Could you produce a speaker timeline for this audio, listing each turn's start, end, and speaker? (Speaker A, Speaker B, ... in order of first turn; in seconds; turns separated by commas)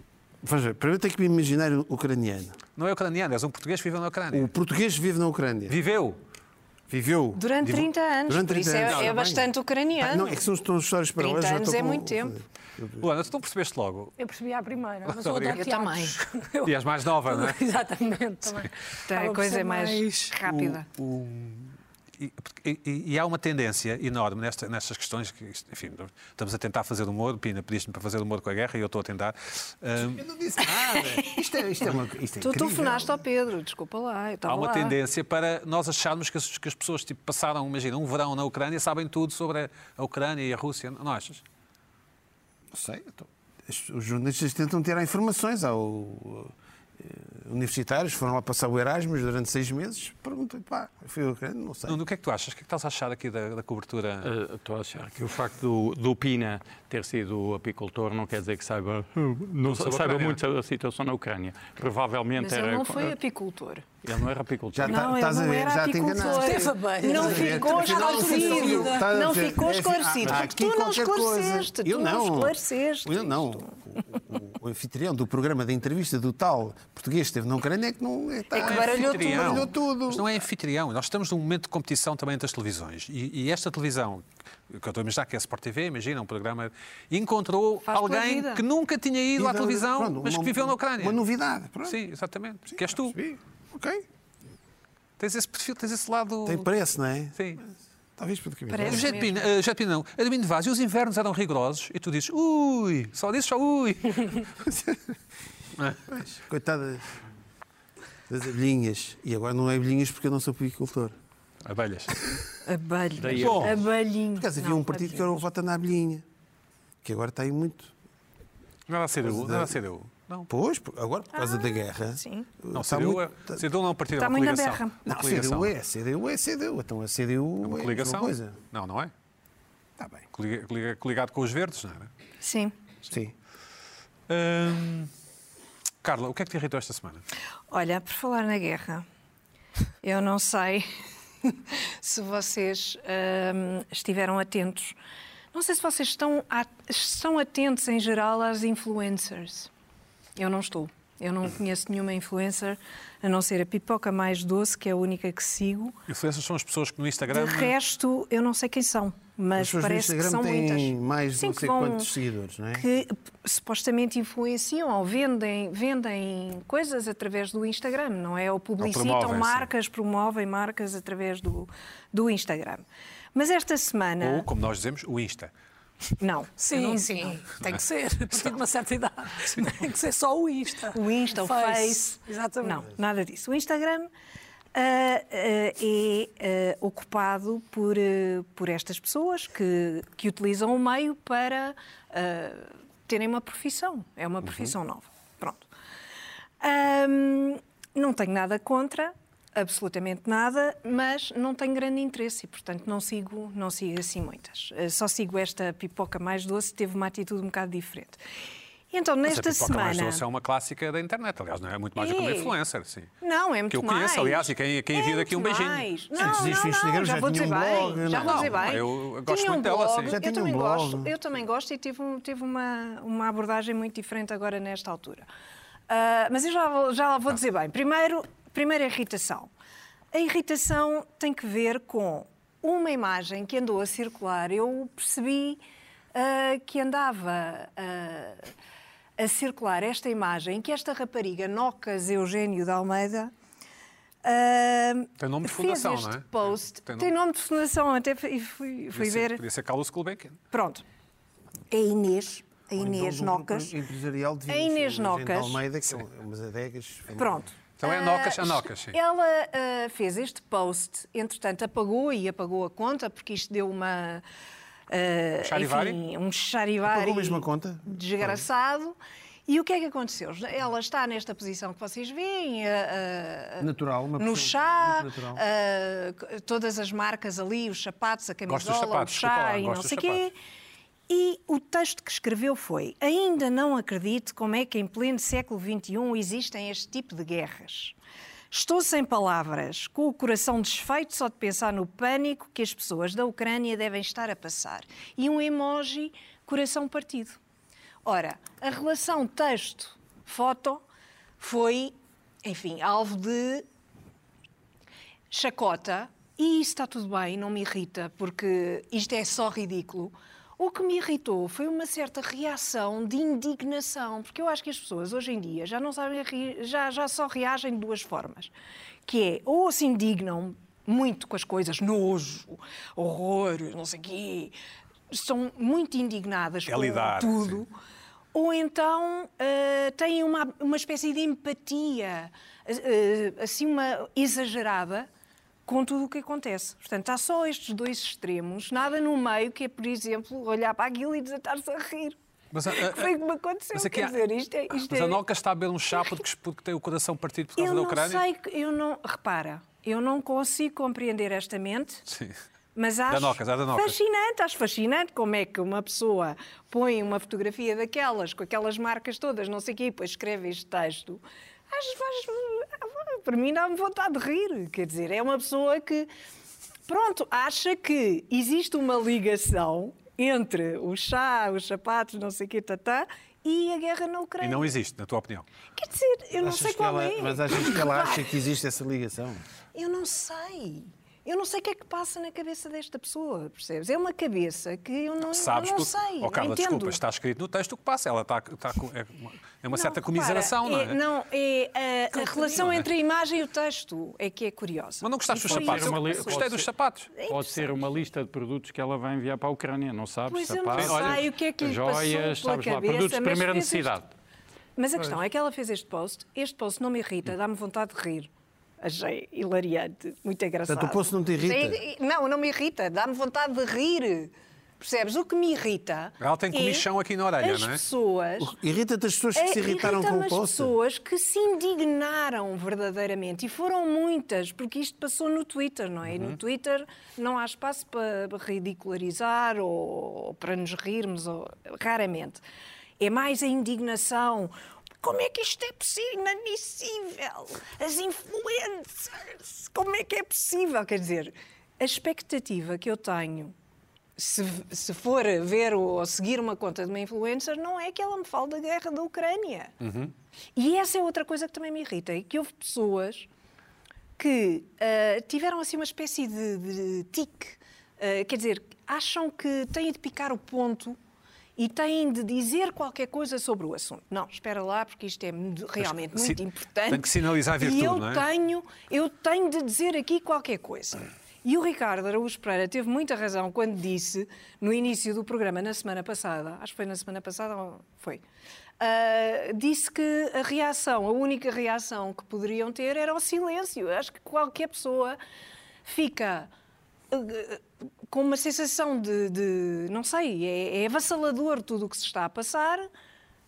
Speaker A: 0.4-2.6, Speaker B: 2.8-4.5, Speaker A: 4.3-5.8, Speaker B: 5.7-6.2, Speaker A: 6.9-13.1, Speaker C: 7.4-10.4, Speaker B: 8.8-9.1, Speaker C: 11.2-12.4, Speaker B: 13.0-14.2, Speaker D: 14.2-20.4, Speaker B: 15.1-15.6, Speaker C: 15.6-16.2, Speaker B: 16.6-17.6, Speaker C: 19.1-20.9, Speaker B: 20.5-30.2, Speaker A: 30.0-33.2, Speaker C: 30.8-31.4, Speaker C: 32.4-35.0, Speaker B: 34.5-41.4, Speaker A: 42.7-52.0, Speaker B: 51.9-54.3, Speaker E: 54.2-63.2, Speaker B: 59.6-60.4, Speaker C: 62.4-63.9, Speaker E: 64.0-65.1, Speaker A: 64.7-80.4, Speaker C: 64.8-74.0, Speaker D: 66.2-69.0, Speaker C: 78.5-79.7, Speaker B: 78.5-91.2, Speaker C: 87.9-88.7, Speaker A: 89.4-92.0, Speaker B: 91.8-93.2, Speaker A: 92.7-94.0, Speaker B: 95.2-96.7, Speaker A: 96.5-99.2, Speaker B: 97.3-97.6, Speaker C: 98.7-99.5, Speaker B: 98.8-104.5, Speaker A: 104.7-105.0, Speaker B: 105.8-106.3, Speaker A: 106.1-107.1, Speaker A: 108.3-111.2, Speaker B: 111.6-112.2, Speaker C: 112.7-115.4, Speaker E: 113.2-113.8, Speaker B: 113.4-113.8, Speaker A: 114.4-116.2, Speaker A: 117.0-117.9, Speaker B: 118.9-120.5, Speaker A: 119.2-119.8, Speaker A: 120.5-123.6, Speaker C: 121.3-122.5, Speaker B: 122.7-125.7, Speaker C: 124.2-125.0, Speaker A: 125.0-128.6, Speaker B: 127.6-129.1, Speaker A: 130.0-130.2, Speaker B: 130.3-132.1, Speaker C: 132.4-132.7, Speaker A: 133.1-133.3, Speaker B: 134.3-135.1, Speaker B: 136.0-137.2, Speaker C: 137.7-139.1, Speaker C: 140.0-140.9, Speaker C: 141.4-145.0, Speaker C: 145.5-149.7, Speaker C: 150.4-155.9, Speaker B: 156.1-157.7, Speaker C: 157.3-162.1, Speaker A: 159.6-162.9, Speaker C: 162.8-174.5, Speaker B: 168.8-169.7, Speaker B: 174.2-175.5, Speaker C: 176.2-177.4, Speaker D: 176.6-182.8, Speaker C: 180.9-184.1, Speaker C: 184.7-195.7, Speaker C: 196.6-208.2, Speaker C: 208.9-210.2, Speaker B: 209.2-213.1, Speaker C: 212.0-212.6, Speaker C: 213.2-225.3, Speaker B: 213.7-216.6, Speaker A: 216.2-218.8, Speaker B: 218.1-220.2, Speaker A: 220.1-221.1, Speaker C: 225.9-229.5, Speaker C: 230.1-235.6, Speaker C: 236.1-238.5, Speaker C: 239.2-243.3, Speaker C: 244.2-249.4, Speaker B: 245.2-247.1, Speaker B: 248.9-250.4, Speaker C: 250.5-250.8, Speaker C: 251.7-253.7, Speaker A: 252.8-257.5, Speaker C: 254.5-255.6, Speaker C: 257.2-264.2, Speaker B: 257.8-259.0, Speaker C: 264.9-269.0, Speaker B: 265.4-266.0, Speaker A: 266.8-268.4, Speaker C: 269.5-280.3, Speaker A: 273.6-275.4, Speaker B: 278.5-280.3, Speaker C: 281.1-288.0, Speaker C: 288.5-297.4, Speaker C: 298.1-300.8, Speaker C: 301.4-303.7, Speaker C: 305.3-318.5, Speaker C: 319.1-324.6, Speaker C: 325.1-327.7, Speaker B: 326.7-327.6, Speaker C: 328.3-335.1, Speaker C: 335.7-342.2, Speaker B: 342.5-343.2, Speaker C: 342.7-345.2, Speaker B: 343.7-344.2, Speaker B: 344.7-348.2, Speaker C: 345.9-346.2, Speaker C: 347.6-352.1, Speaker B: 352.1-352.4, Speaker C: 352.8-366.1, Speaker B: 353.1-354.0, Speaker C: 366.9-374.8, Speaker B: 374.4-375.4, Speaker C: 375.8-378.3, Speaker A: 376.4-379.4, Speaker C: 379.8-387.0, Speaker B: 385.3-391.0, Speaker C: 389.7-396.4, Speaker D: 392.2-392.6, Speaker B: 392.6-392.9, Speaker B: 395.0-397.1, Speaker E: 395.3-396.7, Speaker C: 397.1-397.8, Speaker E: 397.3-404.1, Speaker C: 400.3-403.9, Speaker B: 400.8-401.3, Speaker C: 404.8-408.3, Speaker C: 408.8-416.9, Speaker A: 410.7-411.8, Speaker B: 416.2-417.8, Speaker C: 417.4-418.5, Speaker A: 418.4-420.7, Speaker C: 419.4-432.4, Speaker B: 426.1-426.4, Speaker C: 433.0-443.5, Speaker C: 444.2-449.8, Speaker B: 449.8-450.1, Speaker C: 450.6-453.3, Speaker C: 454.2-461.0, Speaker C: 461.6-478.2, Speaker B: 465.8-468.3, Speaker C: 478.8-485.2, Speaker C: 485.9-486.5, Speaker C: 487.1-492.9